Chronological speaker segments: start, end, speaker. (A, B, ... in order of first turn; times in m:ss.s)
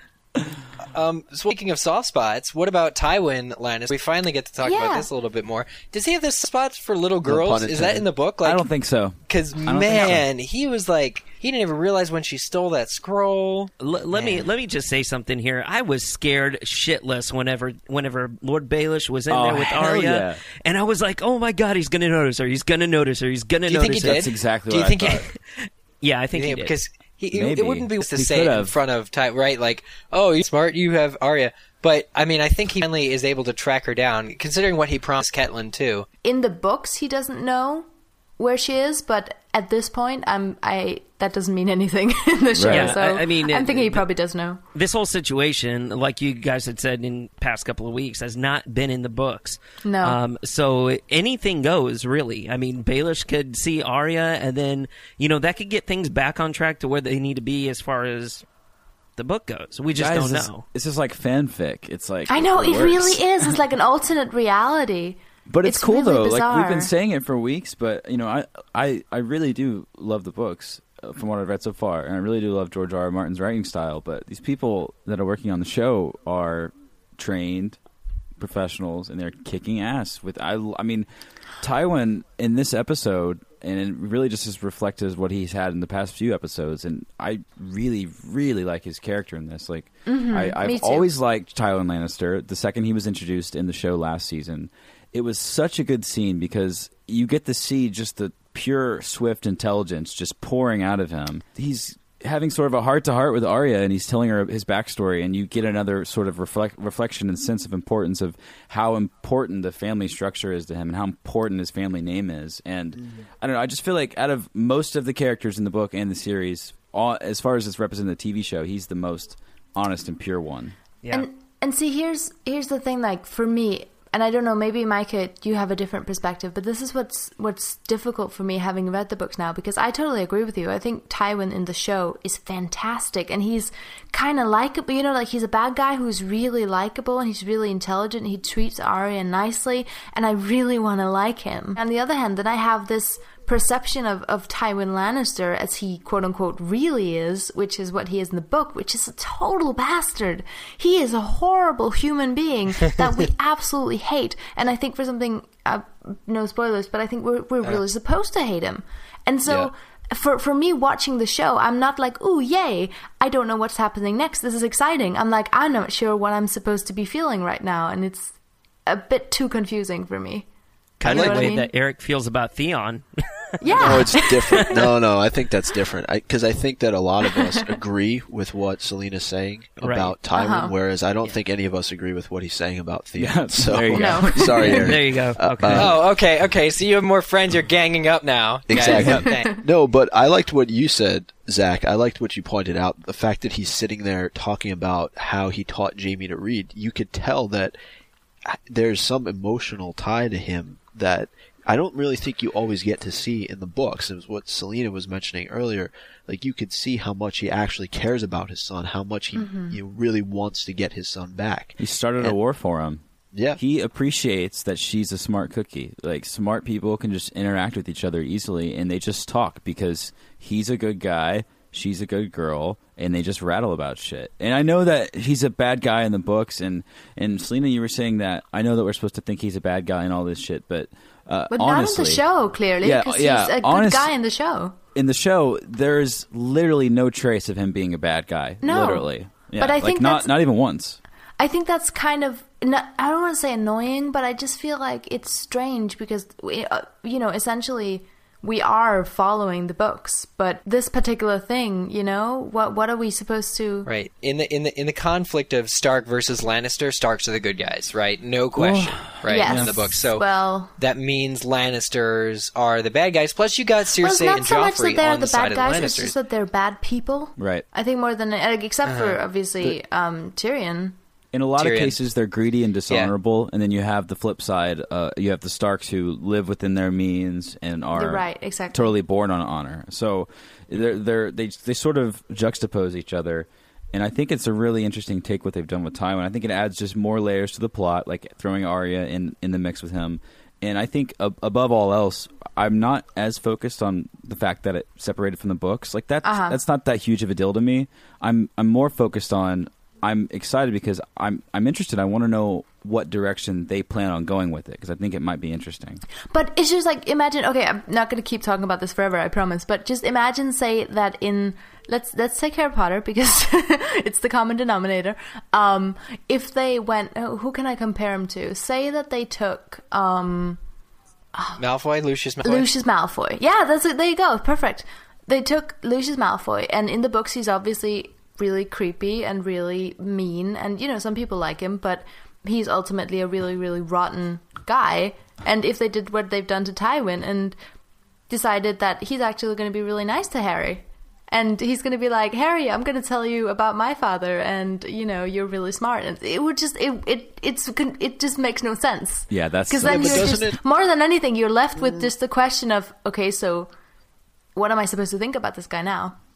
0:00.4-0:00.7 A
0:00.9-0:08.6 B
0:04.6-0:05.1 C
0:07.2-0:08.1 D
0:08.4-0:10.2 A
0:09.3-0:14.5 B
0:13.8-0:24.2 E
0:19.3-0:20.4 A
0:23.7-0:25.3 B
0:23.8-0:25.3 A
0:25.3-0:26.8 E
0:26.3-0:36.1 B
0:27.3-0:28.8 A
0:36.2-0:37.9 C
0:38.4-0:44.6 C
0:42.6-0:43.0 A
0:42.7-0:44.1 E
0:44.7-0:58.4 E
0:49.8-0:50.2 C
0:59.2-1:00.6 E
0:59.9-1:03.6 A
1:02.3-1:06.9 C
1:05.5-1:17.8 A
1:18.4-1:21.1 A
1:21.6-2:00.8 A
1:30.1-1:31.1 C
2:01.0-2:01.3 E
2:01.1-2:48.4 C
2:39.5-2:39.7 D
2:48.9-2:50.5 C
2:51.0-2:54.9 E
2:51.0-2:51.7 C
2:51.0-2:51.5 D
2:53.6-2:54.9 C
2:53.8-3:06.0 D
2:57.4-2:57.6 C
2:59.8-3:00.2 E
3:00.4-3:00.7 C
3:03.2-3:05.0 A
3:03.9-3:04.5 C
3:04.7-3:05.9 E
3:05.7-3:09.6 B
3:08.7-3:17.8 D
3:08.8-3:09.2 A
3:09.1-3:09.5 C
3:18.5-3:32.4 D
3:29.4-3:29.8 C
3:31.8-3:33.0 A
3:33.3-3:33.6 D
3:33.6-3:52.2 A
3:51.5-3:54.8 C
3:52.8-3:54.1 A
3:55.0-4:01.0 A
3:58.6-4:00.3 C
4:01.4-4:13.9 C
4:13.9-4:20.3 B
4:18.5-4:19.9 A
4:19.2-4:20.7 C
4:20.8-4:26.1 B
4:24.0-4:31.0 C
4:27.4-4:27.6 A
4:28.9-4:29.2 B
4:31.3-5:06.0 A
4:31.6-4:32.0 B
4:37.9-4:39.0 C
4:56.2-4:56.6 C
5:06.3-5:20.6 C
5:21.4-5:21.6 C
5:21.6-5:22.7 B
5:22.4-5:37.6 C
5:38.3-5:53.7 C
5:49.3-5:50.4 A
5:49.8-5:50.6 D
5:54.6-5:56.2 C